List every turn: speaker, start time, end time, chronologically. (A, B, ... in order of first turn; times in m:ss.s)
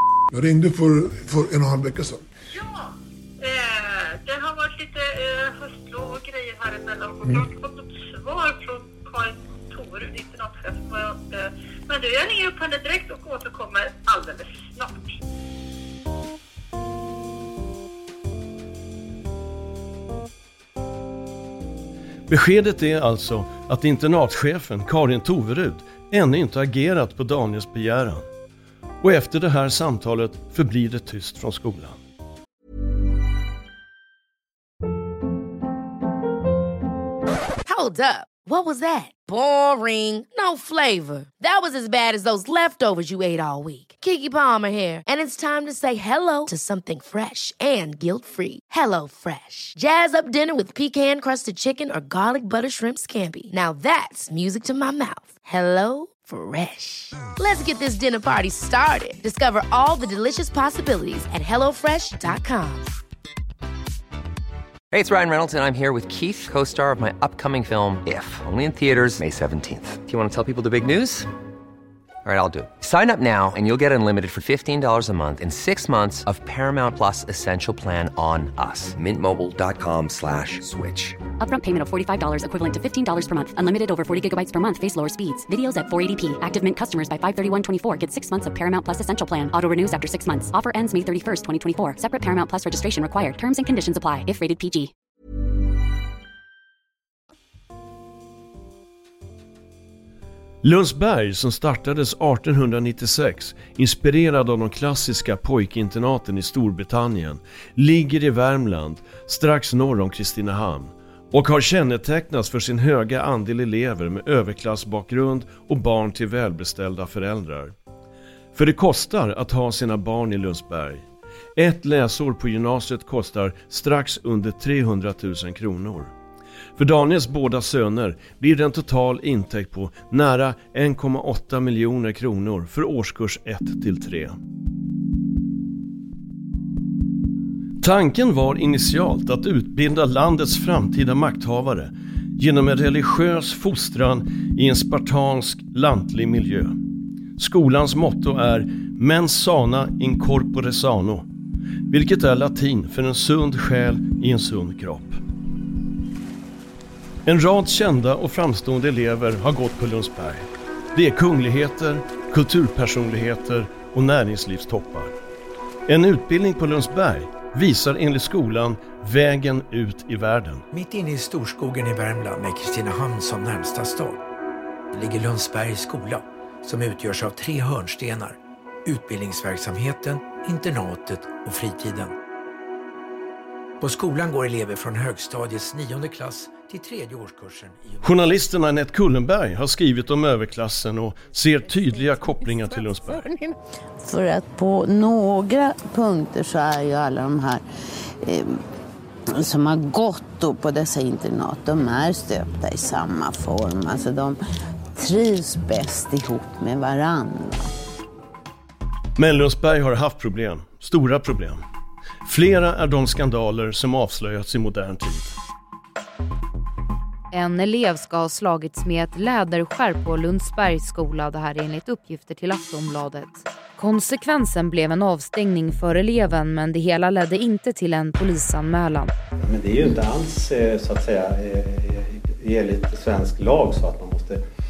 0:00.3-0:02.2 A
0:02.5-0:15.1 B
0:22.3-0:28.3 C
0:29.0-0:32.0 C
0:37.6-1:02.9 D
1:04.9-1:11.3 E
1:12.2-1:21.2 E
1:21.4-1:34.9 F
1:40.6-1:57.7 C
1:58.6-2:01.0 C
2:01.6-2:06.1 C
2:06.8-2:14.4 C
2:17.8-2:26.8 C
2:27.4-2:31.3 C
2:31.9-2:35.2 C
2:37.3-2:45.1 C
2:45.9-2:50.6 C
2:50.7-2:54.2 G
2:54.9-3:02.2 G
3:03.8-3:08.2 G
3:08.0-3:13.3 C
3:12.4-3:17.6 H
3:18.2-3:18.6 H
3:19.4-3:24.4 H
3:25.0-3:27.7 H
3:29.2-3:31.6 C
3:32.2-3:35.4 C
3:37.3-3:49.1 I
3:49.7-3:54.4 J